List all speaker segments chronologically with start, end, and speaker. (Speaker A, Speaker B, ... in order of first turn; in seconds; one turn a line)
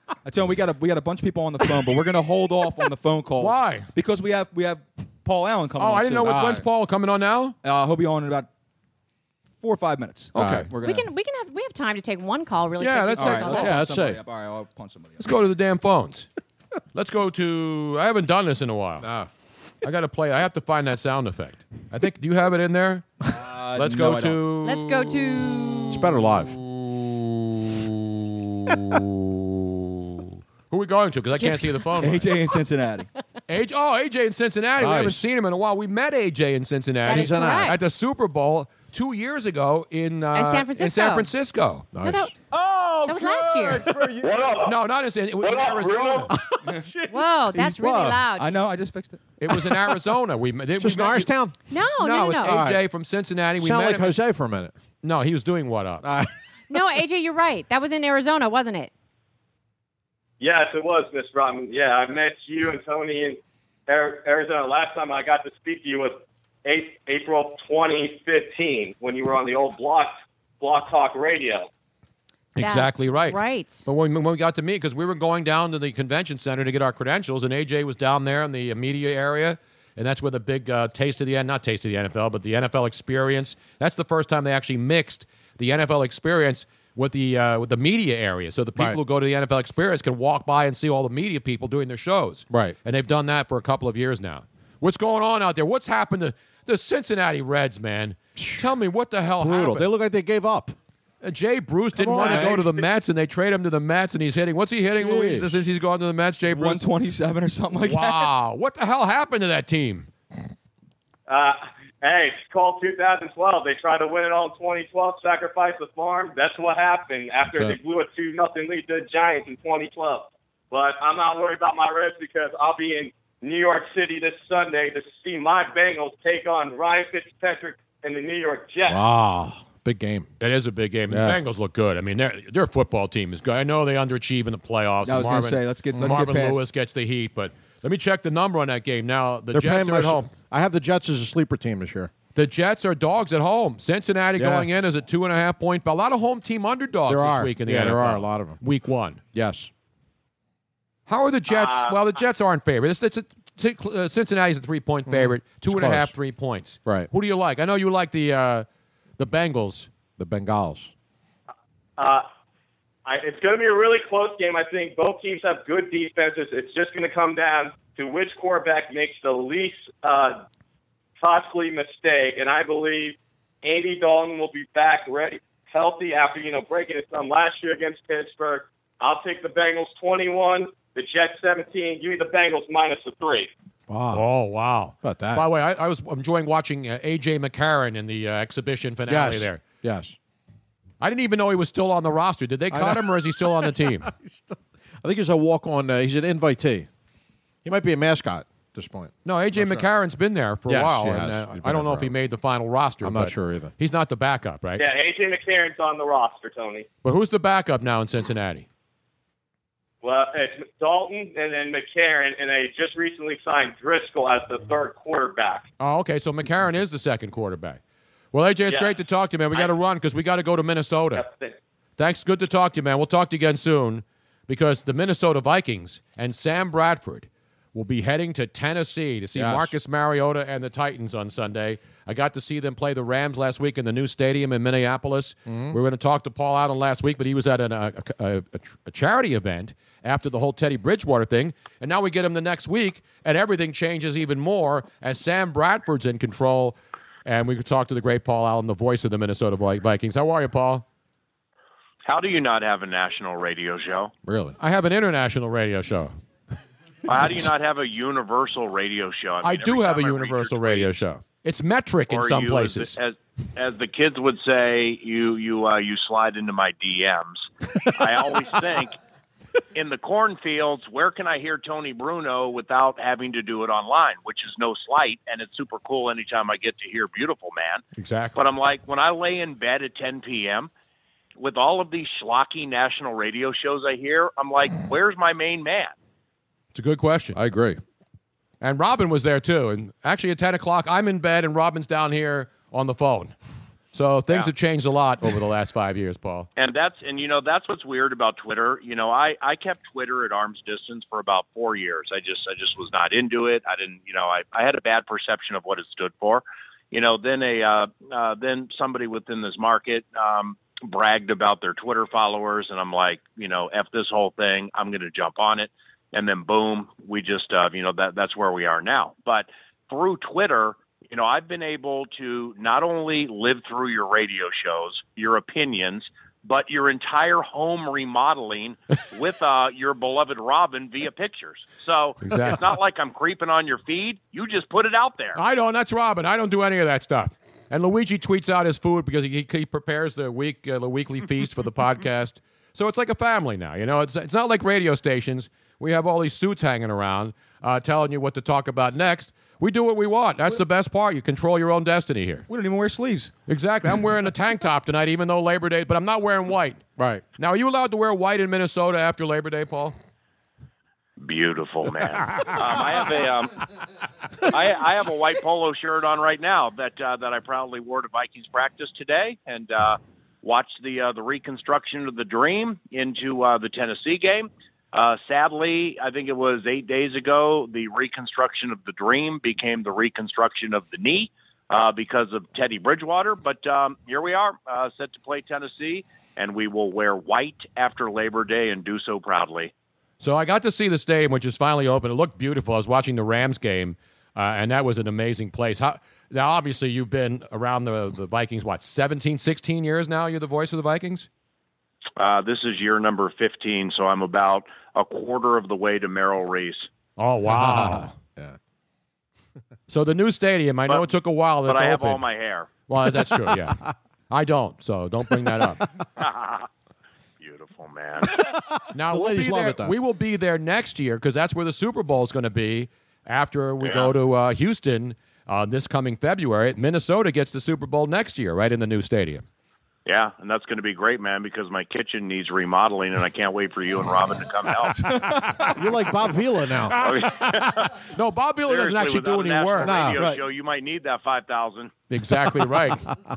Speaker A: 0.2-6.6
Speaker B: 3.4-3.9
Speaker B: 5.8-7.5
Speaker C: 6.2-6.6
Speaker A: 7.6-8.5
Speaker A: 9.6-11.1
Speaker C: 10.3-10.7
Speaker B: 10.3-10.7
Speaker D: 10.8-13.7
Speaker B: 12.8-13.7
Speaker A: 13.1-15.3
Speaker C: 13.5-14.2
Speaker B: 15.2-16.3
Speaker B: 16.9-19.1
Speaker C: 19.0-19.3
Speaker B: 19.8-23.1
Speaker A: 23.2-24.5
Speaker B: 23.7-25.9
Speaker D: 24.6-26.1
Speaker C: 25.9-26.5
Speaker B: 30.1-32.3
Speaker D: 31.4-31.7
Speaker A: 32.0-33.1
Speaker B: 33.5-41.9
Speaker C: 34.8-35.2
Speaker C: 37.0-37.8
Speaker D: 37.0-37.9
Speaker D: 40.3-41.3
Speaker C: 41.9-42.3
Speaker D: 42.0-42.3
Speaker A: 42.5-44.4
Speaker D: 43.0-43.9
Speaker B: 44.6-46.3
Speaker C: 46.3-48.2
Speaker D: 47.1-48.5
Speaker A: 48.3-49.2
Speaker B: 49.4-51.3
Speaker C: 49.5-50.0
Speaker C: 50.8-51.5
Speaker D: 51.7-52.6
Speaker B: 52.0-54.2
Speaker C: 52.4-52.8
Speaker C: 53.6-54.7
Speaker B: 55.0-56.1
Speaker C: 56.0-56.3
Speaker D: 56.7-58.9
Speaker E: 60.4-71.7
Speaker B: 72.5-99.9
Speaker D: 72.6-73.8
Speaker C: 92.5-92.8
Speaker C: 98.4-98.7
Speaker C: 99.4-100.8
Speaker B: 101.2-106.8
Speaker C: 102.0-102.7
Speaker C: 105.0-105.6
Speaker A: 106.5-108.3
Speaker B: 107.8-110.1
Speaker E: 111.3-129.0
Speaker C: 117.5-117.8
Speaker C: 128.9-130.3
Speaker B: 130.4-140.3
Speaker C: 131.1-131.4
Speaker A: 135.0-136.6
Speaker C: 139.5-142.1
Speaker B: 142.3-149.2
Speaker C: 144.4-144.7
Speaker C: 147.1-148.6
Speaker C: 149.3-149.7
Speaker B: 151.1-158.7
Speaker E: 151.5-152.2
Speaker C: 155.1-156.1
Speaker B: 159.2-159.9
Speaker C: 160.2-160.9
Speaker E: 162.0-162.2
Speaker E: 163.1-170.4
Speaker E: 171.2-183.5
Speaker C: 183.9-184.2
Speaker B: 184.1-189.6
Speaker C: 185.0-185.4
Speaker C: 189.1-190.2
Speaker B: 191.0-194.1
Speaker C: 192.7-196.9
Speaker C: 197.6-199.9
Speaker B: 199.2-204.8
Speaker C: 200.7-202.1
Speaker C: 203.0-203.7
Speaker E: 204.8-206.9
Speaker B: 207.0-208.7
Speaker E: 210.0-215.7
Speaker B: 215.8-217.8
Speaker B: 218.3-221.2
Speaker E: 218.7-219.0
Speaker E: 221.1-221.6
Speaker B: 222.0-250.8
Speaker C: 229.3-229.7
Speaker C: 235.5-235.8
Speaker F: 252.1-254.1
Speaker C: 254.2-254.6
Speaker B: 254.6-256.1
Speaker F: 257.0-260.9
Speaker B: 259.4-262.9
Speaker F: 262.1-268.9
Speaker F: 269.7-277.8
Speaker B: 278.0-278.4
Speaker F: 278.3-280.7
Speaker F: 281.4-285.9
Speaker B: 286.7-287.4
Speaker C: 287.3-287.8
Speaker B: 288.6-293.3
Speaker B: 293.9-296.5
Speaker F: 296.6-335.4
Speaker B: 332.2-332.7
Speaker B: 335.3-352.5
Speaker A: 352.5-353.3
Speaker B: 353.5-356.8
Speaker C: 357.0-357.2
Speaker B: 357.4-359.9
Speaker F: 361.2-363.6
Speaker F: 364.4-389.7
Speaker B: 390.2-401.3
Speaker F: 402.2-406.9
Speaker B: 407.2-408.1
Speaker C: 407.5-408.6
Speaker B: 409.9-412.2
Speaker F: 410.9-412.8
Speaker B: 412.9-415.9
Speaker C: 413.2-413.7
Speaker F: 416.2-416.7
Speaker F: 417.4-418.4
Speaker C: 418.4-419.9
Speaker B: 418.9-429.4
Speaker F: 423.8-424.1
Speaker F: 430.1-435.1
Speaker A: 435.1-435.7
Speaker C: 435.7-437.0
Speaker F: 436.9-437.9
Speaker B: 436.9-440.2
Speaker F: 438.6-441.9
Speaker C: 439.8-440.2
Speaker B: 442.1-443.1